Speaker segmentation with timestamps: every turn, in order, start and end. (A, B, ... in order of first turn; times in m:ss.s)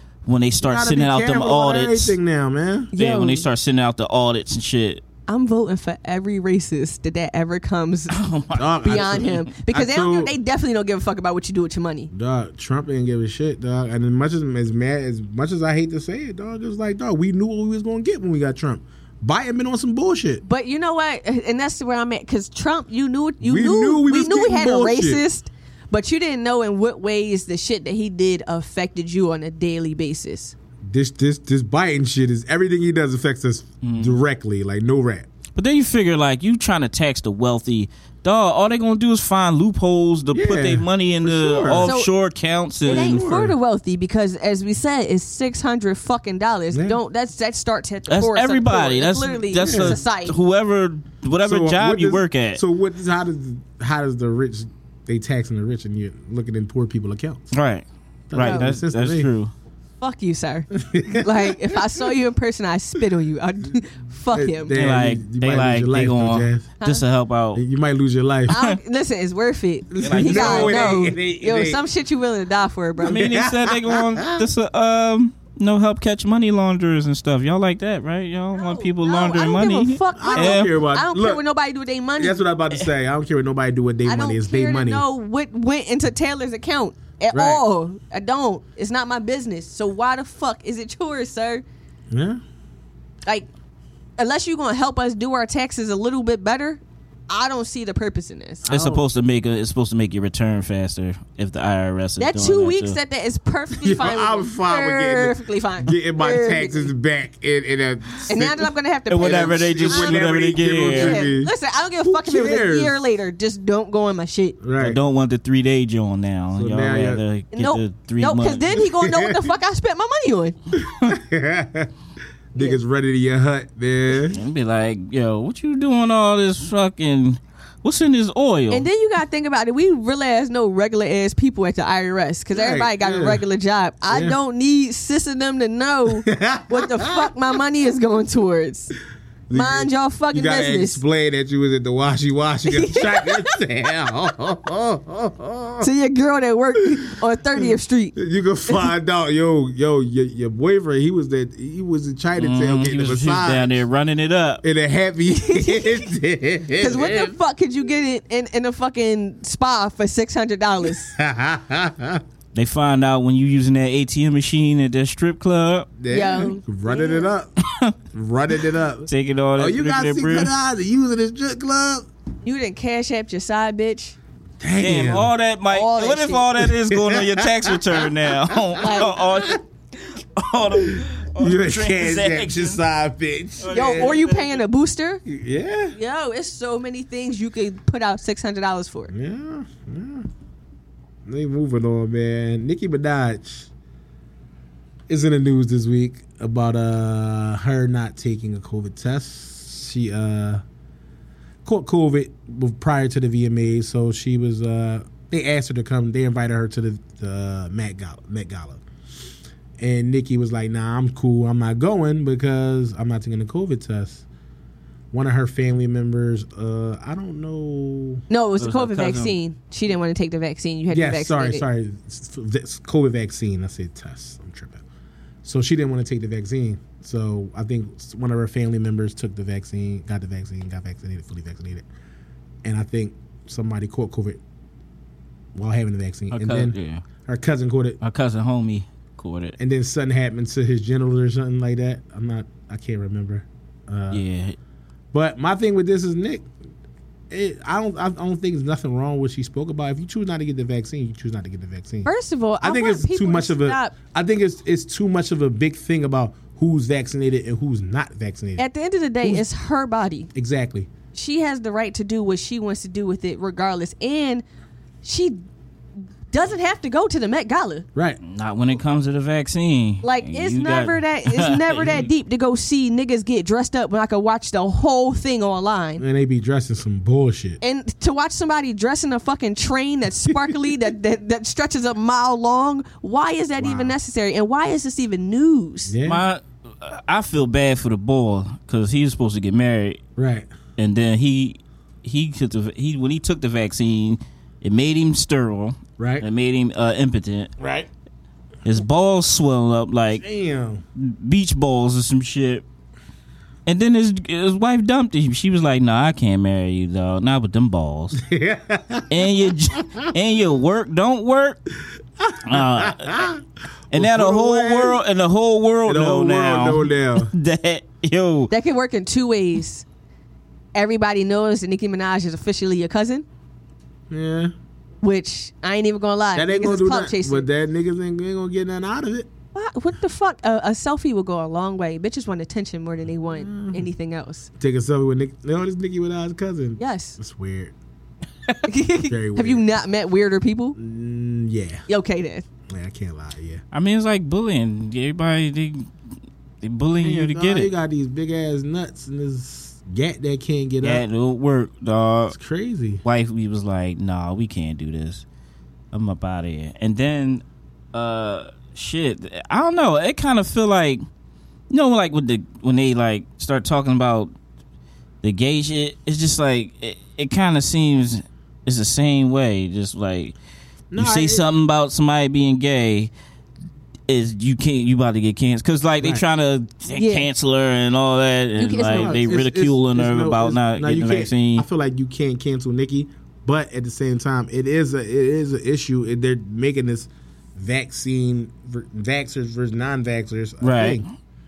0:00.3-0:02.2 A
0:00.6-0:02.9 B
0:02.9-0:03.4 C
0:03.0-0:05.0 A
0:05.3-0:08.2 C
0:08.1-0:09.5 A
0:08.6-0:10.3 B
0:08.8-0:12.1 C
0:12.1-0:20.4 B
0:20.4-0:30.6 C
0:23.4-0:25.2 B
0:30.8-0:35.3 B
0:33.8-0:34.2 A
0:35.6-0:43.2 A
0:40.3-0:41.9 B
0:41.8-0:42.1 C
0:42.9-0:43.6 B
0:42.9-0:50.4 C
0:46.7-0:47.0 B
0:48.1-0:52.6 A
0:49.6-0:50.0 B
0:51.4-0:57.5 B
0:57.5-0:59.5 A
0:58.3-0:59.3 B
0:58.4-0:58.7 C
1:00.0-1:04.8 C
1:00.8-1:02.0 B
1:04.3-1:06.7 B
1:04.7-1:07.6 A
1:07.6-1:08.6 B
1:08.5-1:13.2 C
1:08.5-1:08.8 A
1:09.9-1:11.8 B
1:10.0-1:11.0 A
1:13.0-1:14.5 B
1:13.0-1:20.7 A
1:18.6-1:22.4 C
1:20.2-1:21.4 B
1:22.2-1:25.0 B
1:24.0-1:31.6 C
1:27.3-1:27.6 B
1:32.1-1:32.4 B
1:34.2-1:38.6 C
1:38.6-1:39.0 B
1:38.7-1:43.0 A
1:42.2-1:46.9 C
1:43.8-1:53.0 B
1:48.3-1:50.3 C
1:49.1-1:51.3 A
1:50.9-1:54.6 C
1:54.6-1:55.0 B
1:54.8-1:58.8 A
1:56.5-1:57.2 B
1:57.5-2:00.6 C
1:58.8-1:59.5 B
2:00.7-2:01.9 B
2:02.5-2:04.4 B
2:04.2-2:08.9 A
2:08.7-2:19.0 C
2:12.5-2:13.4 B
2:14.1-2:14.4 B
2:16.2-2:17.3 B
2:19.5-2:25.9 B
2:19.5-2:21.0 C
2:22.7-2:23.6 C
2:25.8-2:28.2 C
2:27.6-2:33.8 B
2:32.4-2:34.6 A
2:34.6-2:37.4 B
2:35.3-2:36.1 C
2:36.8-2:41.2 C
2:41.1-2:42.2 B
2:42.6-2:45.9 A
2:46.0-2:47.5 B
2:46.1-2:47.2 C
2:47.6-2:47.9 A
2:48.1-2:52.1 B
2:49.1-2:50.5 A
2:52.4-2:54.2 C
2:54.6-2:55.3 B
2:54.8-3:02.8 A
2:55.7-2:56.5 C
2:56.7-2:59.5 B
2:58.8-2:59.1 C
3:00.9-3:04.2 B
3:03.6-3:04.6 A
3:03.7-3:05.2 C
3:05.3-3:06.0 B
3:05.9-3:09.1 C
3:09.1-3:10.3 B
3:11.2-3:13.7 B
3:15.1-3:20.6 B
3:21.6-3:28.8 B
3:29.8-3:34.2 B
3:35.1-3:38.2 B
3:38.3-3:41.6 C
3:38.6-3:39.4 A
3:40.9-3:44.8 B
3:45.4-3:51.9 B
3:52.6-3:54.4 B
3:55.6-3:58.0 B
3:56.3-3:57.0 A
3:58.0-3:59.6 A
3:59.6-4:04.2 B
4:04.1-4:04.6 A
4:05.1-4:06.5 B
4:07.3-4:12.1 B
4:12.0-4:14.0 C
4:12.6-4:18.6 B
4:18.6-4:20.3 C
4:20.4-4:20.9 B
4:21.1-4:24.4 C
4:25.0-4:25.4 C
4:26.3-4:27.9 C
4:28.0-4:28.2 B
4:28.2-4:32.1 A
4:30.0-4:36.0 C
4:36.0-4:37.6 B
4:37.6-4:46.0 C
4:40.3-4:40.6 B
4:43.6-4:44.0 B
4:45.9-4:46.2 B
4:46.0-4:50.0 A
4:50.2-4:50.5 B
4:50.8-4:57.5 A
4:56.0-4:56.3 B
4:57.6-4:57.9 B
4:58.6-5:00.2 A
5:00.2-5:00.8 B
5:01.0-5:02.6 A
5:03.7-5:08.2 A
5:08.1-5:10.1 B
5:09.1-5:11.6 A
5:12.2-5:15.0 B
5:12.5-5:13.3 A
5:13.9-5:18.5 A
5:15.9-5:17.3 B
5:18.5-5:19.8 C
5:20.8-5:23.3 C
5:24.1-5:24.5 B
5:25.0-5:27.5 C
5:26.3-5:29.3 B
5:29.6-5:34.5 C
5:33.3-5:33.9 B
5:34.6-5:37.7 B
5:36.8-5:37.2 C
5:38.6-5:40.8 C
5:39.1-5:39.6 B
5:40.8-5:41.8 B
5:41.9-5:42.5 C
5:42.7-5:43.6 B
5:43.7-5:45.9 A
5:46.6-5:47.7 A
5:47.0-5:51.0 B
5:50.8-5:52.4 A
5:52.3-5:53.0 B
5:53.0-5:55.2 A
5:55.9-6:01.0 A
6:01.7-6:04.3 A
6:05.2-6:10.4 A
6:10.9-6:11.5 B
6:11.0-6:13.1 A
6:14.1-6:21.7 A
6:16.9-6:17.3 C
6:18.6-6:19.3 C
6:18.9-6:31.0 B
6:30.6-6:31.1 A